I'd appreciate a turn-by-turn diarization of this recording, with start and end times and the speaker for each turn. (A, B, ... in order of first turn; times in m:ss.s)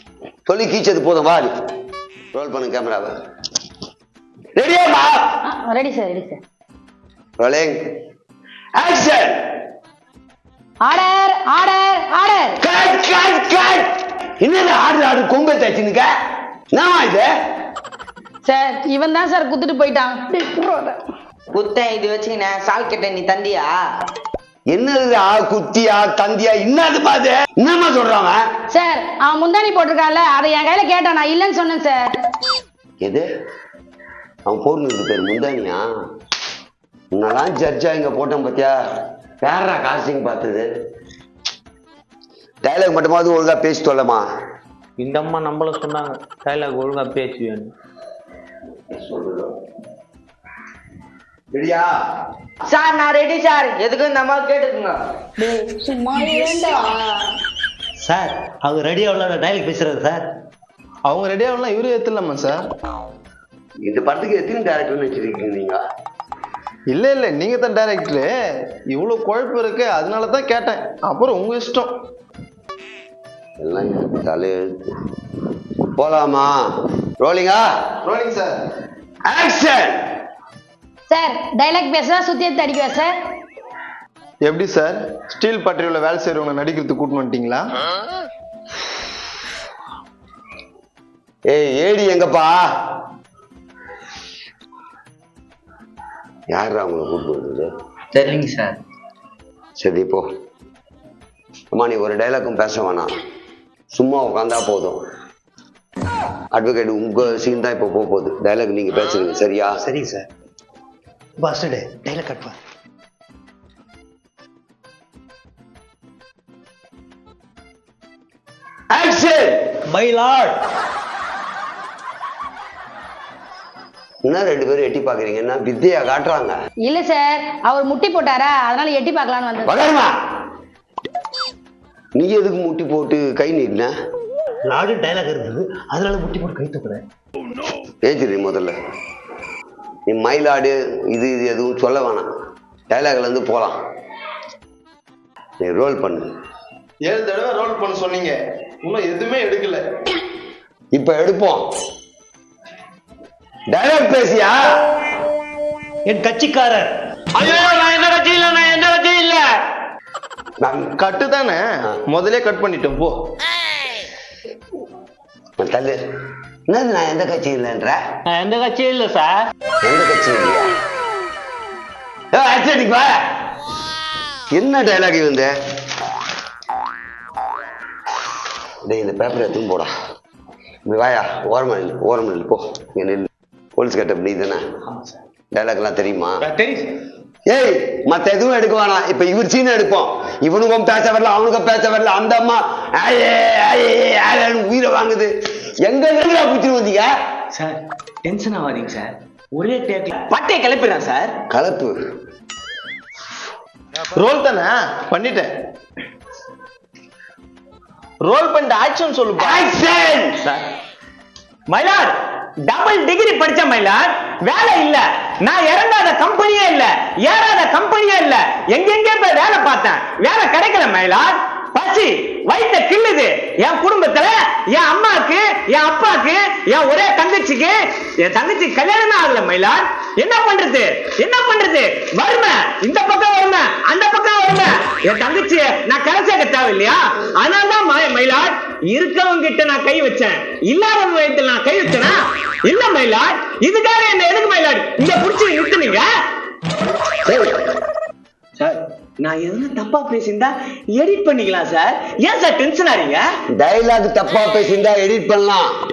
0:00.4-0:01.5 A
0:02.3-0:03.1 A
0:04.6-0:05.3 A
0:05.4-0:06.4 B
0:07.4-0:07.8 A
0:08.8-0:09.4 A
0:10.8-0:12.6 B
0:12.6-0:13.9 A
0:14.4-0:16.1 A
0:16.7-0:17.3 A
0:18.4-0:21.0 B
0:21.5-0:23.8 C
0:24.7-0:28.4 A
0:28.7-0:32.1 B
0:34.5-0:35.8 A
0:37.2-0:38.7 A
0:39.4-0:40.7 A
0:42.6-0:44.2 A
0:45.0-0:47.7 D
0:48.9-0:49.5 A
0:51.5-0:51.9 A
0:52.7-0:55.0 C
0:55.4-0:57.1 B
0:58.0-1:00.3 E
1:01.0-1:02.6 F
1:03.8-1:05.8 A
1:06.9-1:08.3 F
1:08.9-1:11.9 F
1:13.6-1:14.9 A
1:16.0-1:16.6 A
1:17.2-1:17.6 A
1:18.0-1:18.5 F
1:19.3-1:20.0 A
1:21.1-1:23.1 B
1:24.4-1:27.7 F
1:31.5-1:32.6 A
1:36.5-1:37.7 A
1:38.1-1:38.8 C
1:39.8-1:40.2 A
1:41.7-1:43.1 A
1:43.9-1:45.0 A
1:46.5-1:49.7 A
1:49.8-1:50.3 E
1:51.4-1:52.6 E
1:58.9-1:59.7 A
1:59.9-2:00.5 E
2:04.3-2:06.5 A
2:06.8-2:09.7 B
2:09.7-2:10.1 A
2:12.2-2:13.9 A
2:14.6-2:17.0 E
2:18.0-2:18.7 A
2:20.1-2:22.3 A
2:22.9-2:23.8 A
2:25.6-2:26.3 A
2:27.0-2:29.8 F
2:30.9-2:31.6 A
2:33.7-2:34.6 A
2:36.0-2:36.9 E
2:37.4-2:39.5 G
2:40.6-2:40.9 A
2:41.0-2:43.1 F
2:45.6-2:46.0 A
2:46.7-2:48.0 A
2:48.3-2:49.4 G
2:49.8-2:50.8 A
2:52.3-2:53.4 A
2:54.5-2:55.5 A
2:58.8-2:59.9 A
3:00.8-3:04.6 A
3:04.9-3:05.2 D
3:05.5-3:06.4 A
3:06.4-3:06.9 D
3:07.5-3:17.1 A
3:17.5-3:21.4 D
3:21.5-3:21.9 A
3:24.1-3:25.5 F
3:28.2-3:29.7 F
3:29.4-3:30.4 A
3:31.7-3:32.1 D
3:32.7-4:06.1 D
4:08.6-4:13.2 D
4:13.6-4:15.7 A